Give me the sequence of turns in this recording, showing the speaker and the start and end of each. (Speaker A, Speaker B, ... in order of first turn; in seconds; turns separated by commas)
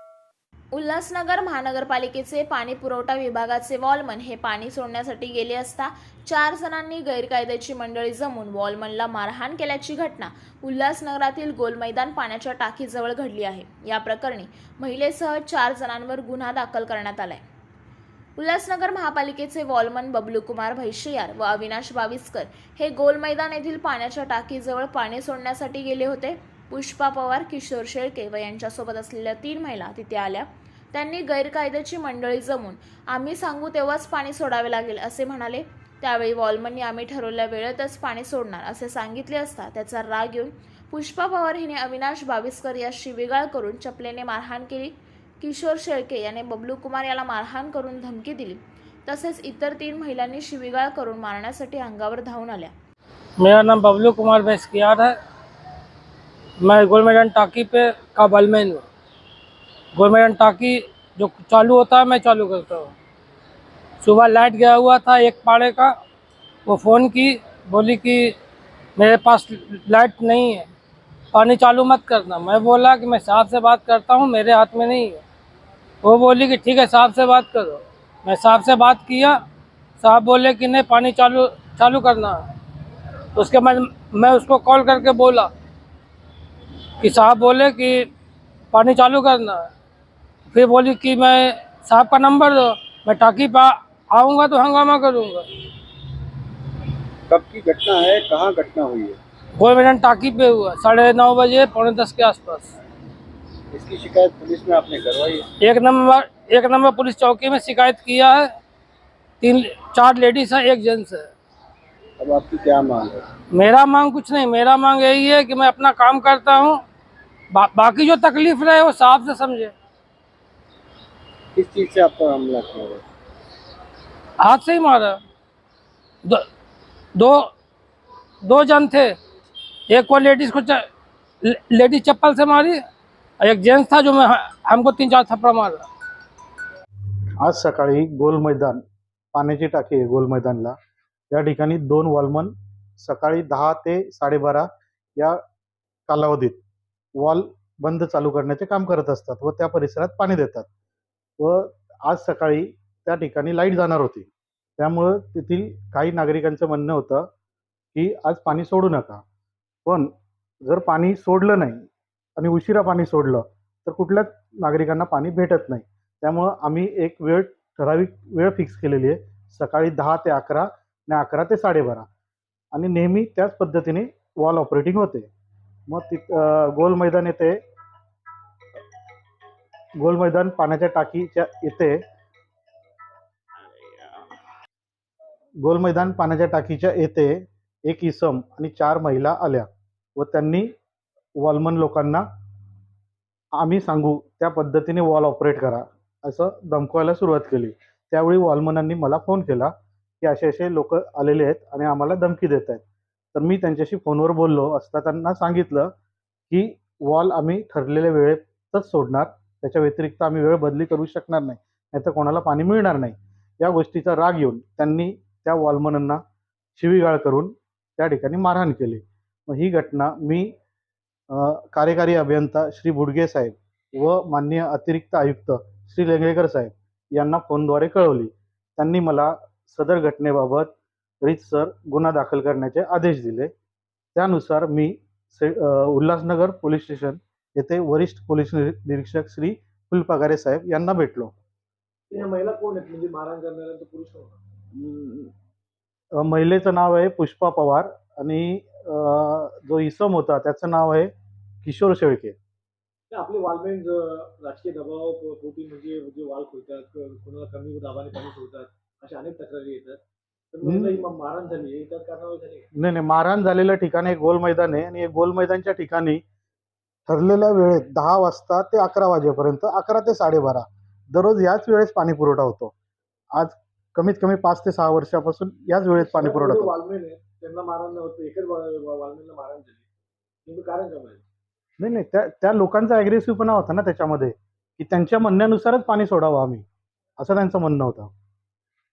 Speaker A: 0.7-17.4, Speaker A: 18.4-52.7, Speaker B: 53.4-55.1, Speaker B: 56.6-58.9, Speaker B: 60.0-62.9, Speaker B: 64.0-65.9, Speaker B: 66.7-68.3, Speaker B: 69.0-70.7, Speaker B: 71.3-75.2, Speaker B: 76.0-79.4, Speaker B: 80.0-82.4, Speaker B: 83.4-85.5, Speaker B: 87.0-88.1, Speaker B: 88.7-89.7, Speaker B: 90.5-95.5, Speaker C: 97.3-99.2, Speaker B: 99.6-102.7, Speaker C: 103.7-105.5, Speaker B: 105.6-108.5, Speaker B: 109.4-111.3, Speaker C: 112.2-113.2, Speaker B: 113.5-116.8, Speaker B: 117.5-119.7, Speaker C: 121.5-123.0, Speaker B: 124.4-125.2, Speaker B: 127.2-127.5, Speaker B: 128.4-129.2, Speaker B: 129.9-130.8, Speaker B: 131.4-132.8, Speaker B: 133.4-135.9, Speaker D: 137.4-138.8, Speaker D: 139.3-140.7, Speaker D: 141.3-144.7, Speaker D: 146.1-146.6, Speaker D: 147.2-150.7, Speaker D: 151.4-157.3, Speaker D: 157.9-159.2, Speaker D: 159.9-160.1, Speaker D: 160.7-161.8, Speaker D: 162.4-172.1, Speaker D: 172.7-175.3, Speaker D: 175.9-177.6, Speaker D: 180.0-182.0, Speaker D: 185.6-190.7, Speaker D: 191.4-192.2, Speaker D: 193.6-202.8, Speaker D: 203.3-205.9, Speaker D: 206.5-216.2, Speaker D: 216.8-220.5, Speaker D: 221.3-233.5, Speaker D: 234.2-241.3, Speaker E: 242.1-244.4, Speaker D: 244.8-245.3, Speaker D: 246.2-251.1, Speaker D: 251.6-252.4, Speaker E: 253.1-260.0, Speaker E: 260.5-262.7, Speaker D: 260.6-261.1, Speaker D: 262.8-266.2, Speaker D: 267.1-272.7, Speaker D: 273.4-276.7, Speaker E: 275.9-279.9, Speaker E: 280.5-281.2, Speaker D: 281.8-286.6, Speaker D: 287.2-288.1